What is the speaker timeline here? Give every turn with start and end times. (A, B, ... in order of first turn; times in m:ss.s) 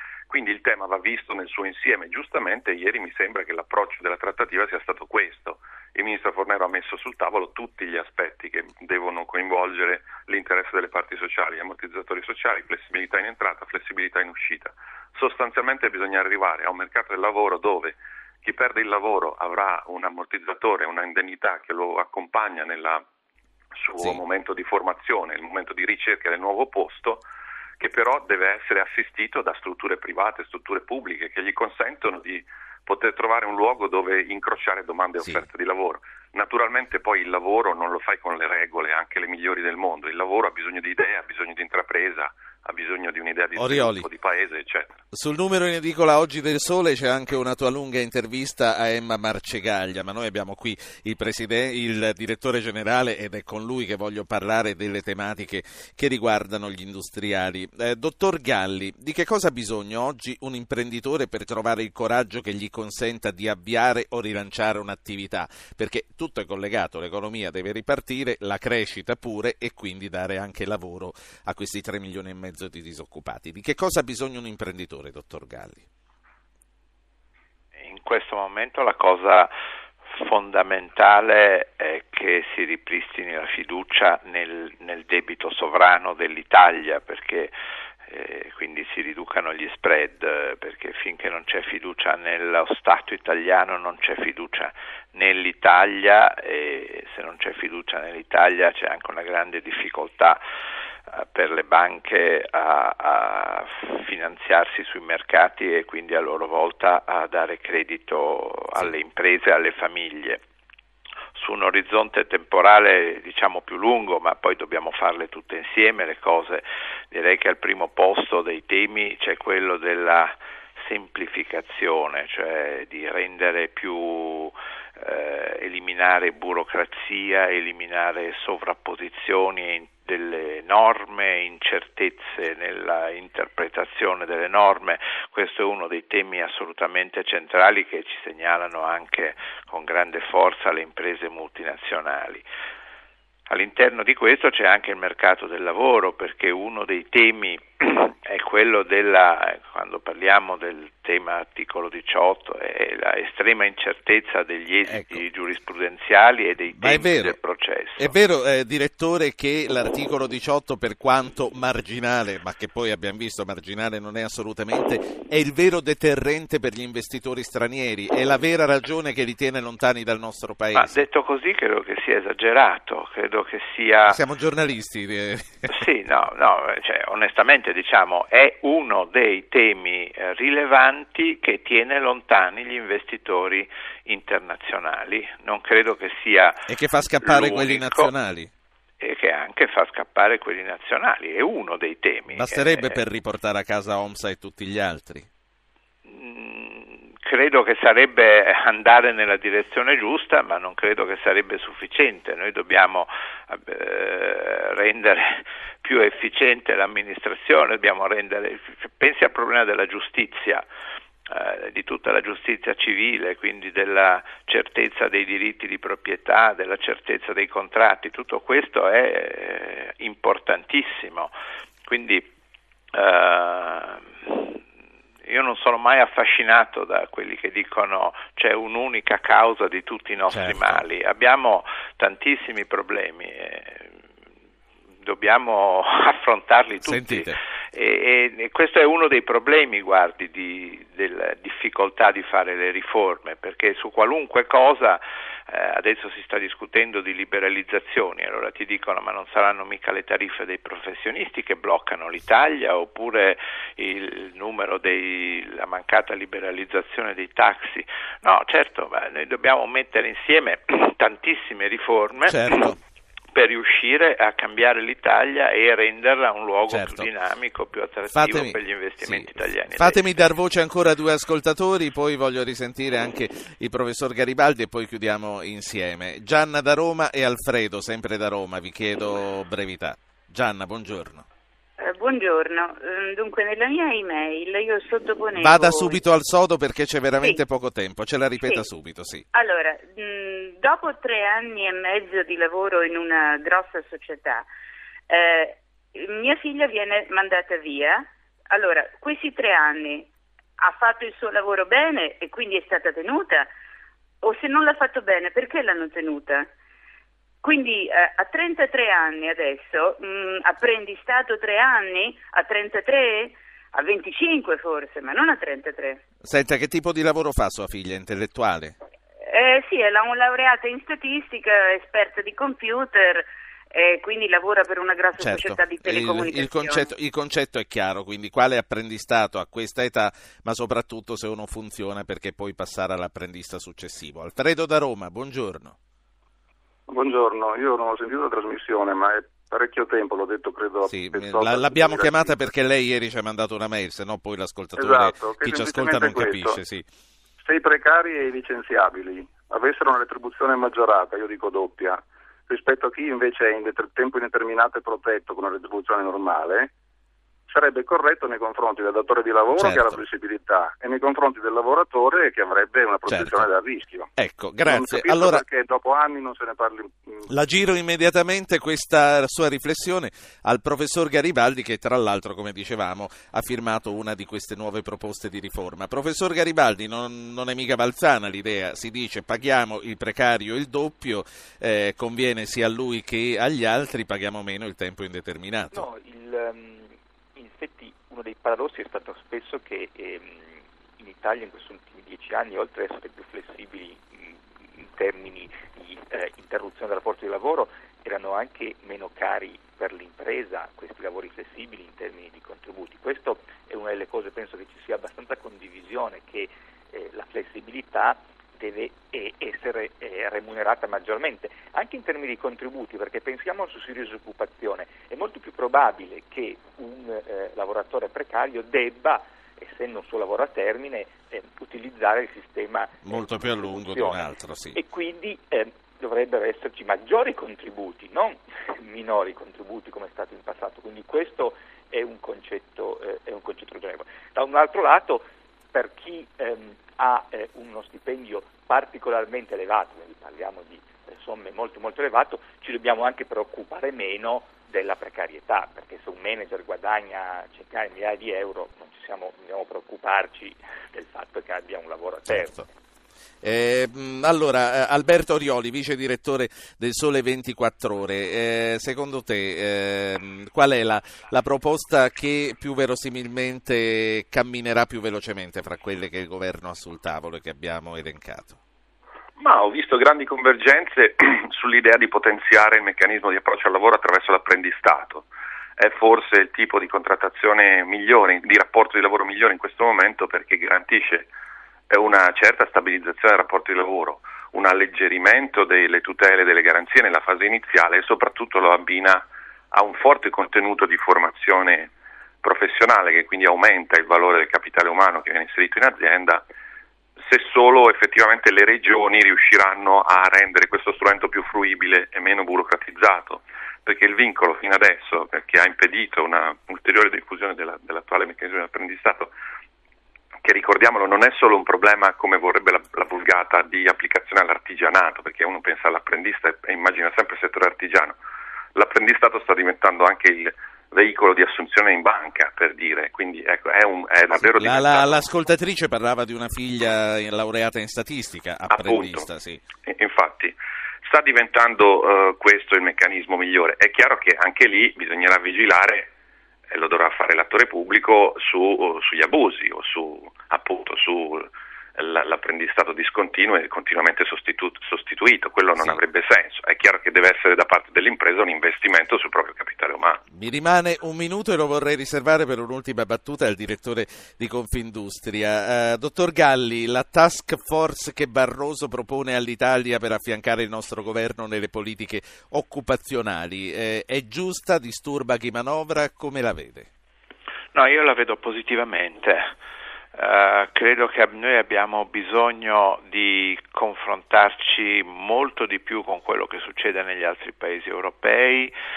0:00.3-0:23.0 A
0:23.8-0:27.2 A
0:27.8-0:45.0 A
0:35.2-0:35.4 B
0:43.5-0:44.1 B
0:45.1-1:15.8 B
1:17.8-1:19.5 C
1:20.1-1:27.5 C
1:28.1-1:40.4 C
1:41.1-1:50.4 C
1:51.3-2:22.4 C
2:23.5-2:38.2 C
2:34.8-2:35.2 B
2:36.8-2:37.4 B
2:38.0-2:51.0 B
2:50.7-2:54.2 C
2:54.0-2:55.7 B
2:55.7-3:06.6 C
3:06.7-3:08.5 B
3:07.2-3:08.1 C
3:09.0-3:13.0 C
3:12.3-3:15.3 B
3:16.0-3:30.6 C
3:31.2-3:41.3 C
3:41.9-3:42.3 C
3:42.9-3:44.6 C
3:45.2-3:54.0 C
3:50.3-3:50.8 B
3:55.0-4:22.8 C
3:56.8-3:57.4 B
4:22.2-4:22.8 B
4:23.3-4:30.1 C
4:26.7-4:27.1 B
4:28.1-4:41.2 B
4:41.8-4:46.0 D
4:45.4-4:49.2 B
4:49.3-4:54.5 D
4:55.1-5:03.5 D
5:04.2-5:06.5 D
5:07.4-5:16.0 D
5:16.2-5:18.7 B
5:19.2-5:26.9 D
5:25.2-5:35.8 B
5:36.9-5:42.4 E
5:40.8-5:46.8 B
5:44.8-5:46.6 E
5:47.4-5:56.7 E
5:57.5-6:04.1 E
5:59.5-6:00.0 B
6:03.1-6:03.5 B
6:04.2-6:05.4 B
6:04.6-6:07.2 E
6:07.3-6:25.8 B
6:25.7-7:32.6 F
7:03.0-7:04.8 B
7:32.3-7:32.6 B
7:33.4-7:48.6 B
7:49.4-8:01.3 A
8:01.9-8:11.9 A
8:12.4-8:16.4 A
8:17.2-8:29.3 A
8:30.4-8:38.2 A
8:38.8-8:45.3 A
8:44.3-8:49.6 B
8:48.7-8:49.3 A
8:49.8-8:56.1 A
8:56.7-9:10.2 A
9:10.3-9:26.9 B
9:27.7-9:29.5 C
9:30.1-9:38.7 C